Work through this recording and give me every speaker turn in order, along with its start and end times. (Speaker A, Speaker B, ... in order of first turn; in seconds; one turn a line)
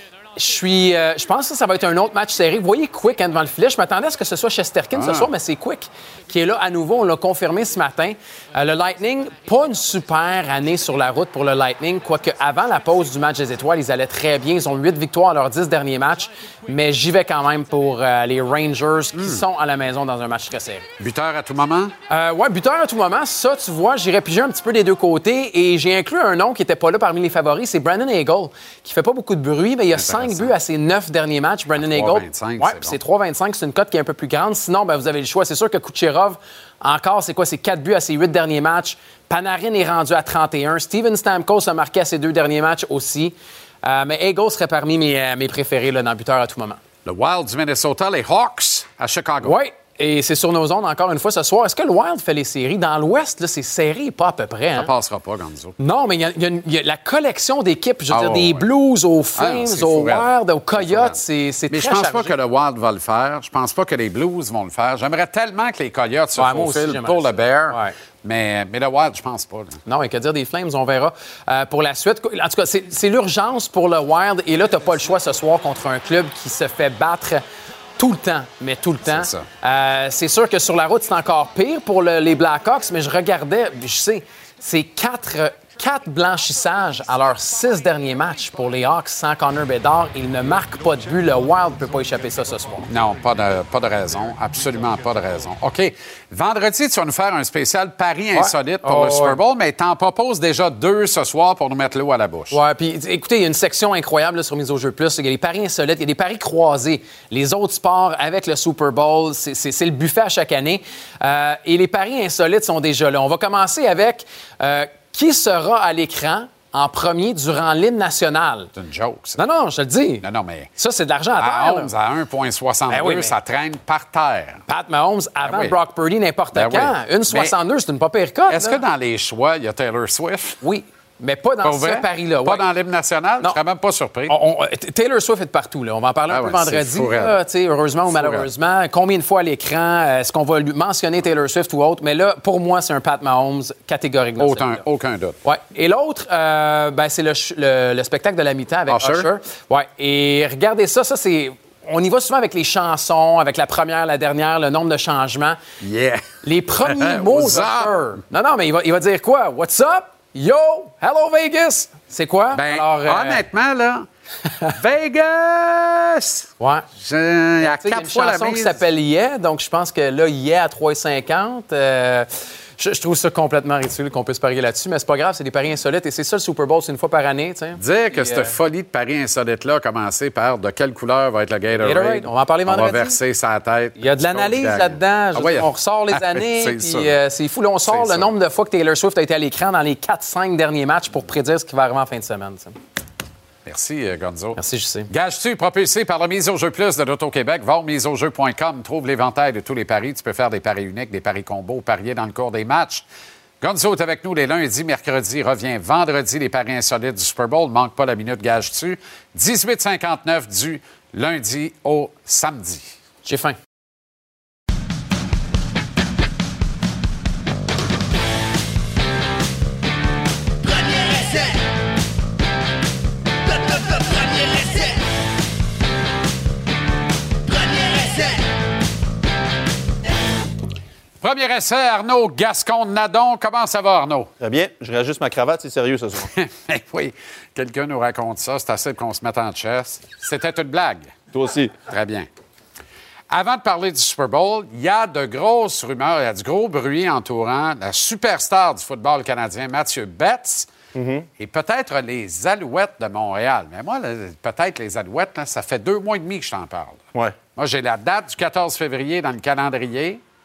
Speaker A: 0.3-20.9
Speaker B: 4.9-5.3
Speaker B: 19.1-19.4
Speaker B: 21.0-21.9
Speaker A: 22.1-46.8
Speaker B: 29.9-30.5
Speaker B: 31.7-33.0
Speaker B: 47.0-49.6
Speaker A: 49.4-54.9
Speaker B: 54.7-55.8
Speaker A: 55.8-62.3
Speaker B: 58.1-58.7
Speaker B: 59.3-69.8
Speaker A: 66.3-67.9
Speaker A: 69.8-77.4
Speaker A: 78.0-92.9
Speaker B: 79.0-79.5
Speaker B: 92.9-102.5
Speaker A: 98.3-99.4
Speaker A: 102.5-118.7
Speaker B: 118.7-119.4
Speaker A: 119.4-120.2
Speaker B: 120.2-120.7
Speaker A: 120.8-121.9
Speaker B: 121.4-124.6
Speaker A: 122.9-123.3
Speaker A: 124.7-128.8
Speaker B: 125.4-125.8
Speaker B: 126.5-127.5
Speaker B: 128.5-130.6
Speaker A: 130.6-132.6
Speaker B: 131.6-134.3
Speaker A: 134.3-144.8
Speaker B: 136.3-137.4
Speaker B: 138.1-138.5
Speaker B: 144.4-145.4
Speaker A: 145.4-155.6
Speaker B: 148.9-149.3
Speaker B: 155.8-157.9
Speaker A: 156.4-163.4
Speaker B: 162.5-164.1
Speaker B: 164.8-168.8
Speaker A: 166.6-166.8
Speaker A: 167.6-178.5
Speaker B: 177.8-187.1
Speaker A: 181.8-183.2
Speaker A: 183.9-192.8
Speaker B: 187.8-188.3
Speaker B: 193.7-203.0
Speaker A: 194.5-195.1
Speaker B: 203.6-212.9
Speaker A: 213.2-213.6
Speaker B: 231.2-234.3
Speaker C: 234.4-236.3
Speaker B: 236.2-241.1
Speaker C: 241.3-241.7
Speaker B: 241.9-242.3
Speaker B: 243.3-250.7
Speaker C: 250.9-251.3
Speaker B: 251.4-257.0
Speaker B: 257.6-260.2